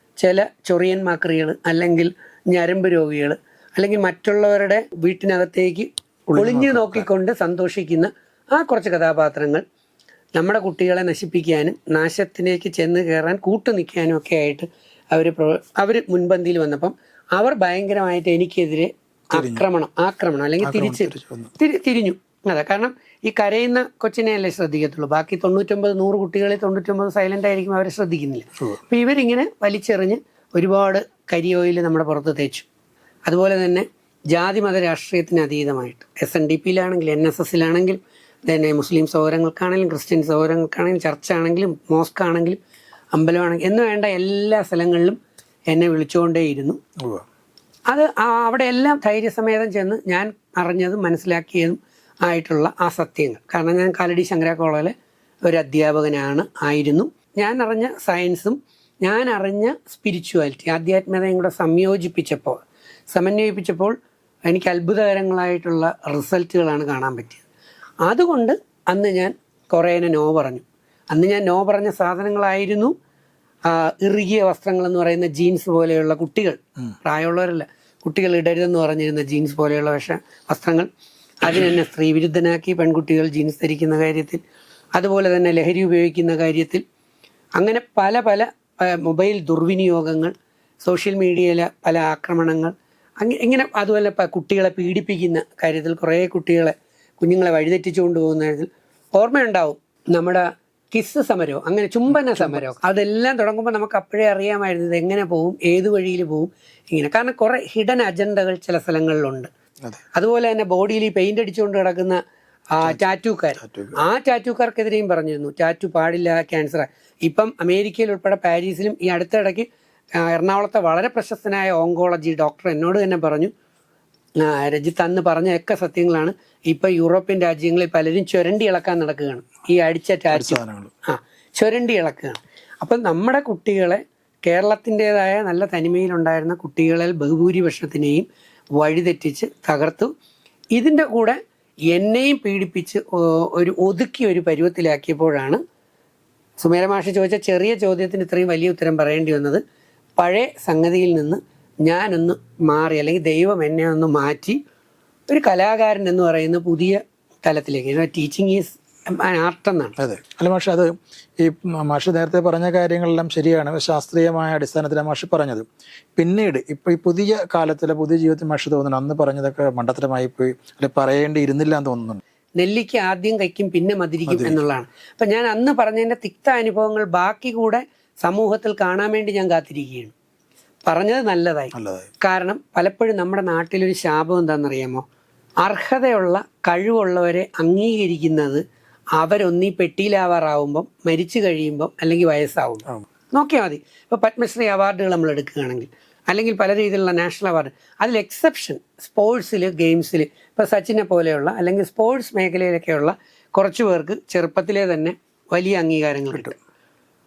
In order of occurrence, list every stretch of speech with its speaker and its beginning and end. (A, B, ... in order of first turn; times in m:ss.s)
0:00.2-0:09.6 A
0:06.3-0:07.1 B
0:10.4-0:32.7 A
0:19.3-0:19.6 B
0:20.6-0:21.5 B
0:33.3-0:42.6 A
0:43.1-0:45.2 A
0:45.7-0:46.8 A
0:47.0-0:47.2 B
0:47.9-0:54.9 A
0:55.4-1:02.6 A
1:03.1-1:04.0 A
1:04.5-1:07.4 A
1:08.0-1:12.9 A
1:13.7-1:20.9 A
1:21.4-1:24.4 A
1:25.0-1:26.8 A
1:27.6-1:49.5 A
1:42.1-1:42.7 B
1:50.2-1:52.2 A
1:52.7-1:59.7 A
1:53.6-1:54.0 B
2:00.2-2:03.5 A
2:04.4-2:20.1 A
2:10.3-2:10.9 B
2:20.7-2:21.4 A
2:21.9-2:25.6 A
2:26.6-2:29.6 A
2:30.2-2:34.6 A
2:35.3-2:40.0 A
2:40.0-2:52.2 B
2:52.6-3:00.1 A
2:54.3-2:54.6 B
3:00.9-3:05.0 A
3:01.8-3:02.1 B
3:05.6-3:08.6 A
3:09.2-3:26.6 A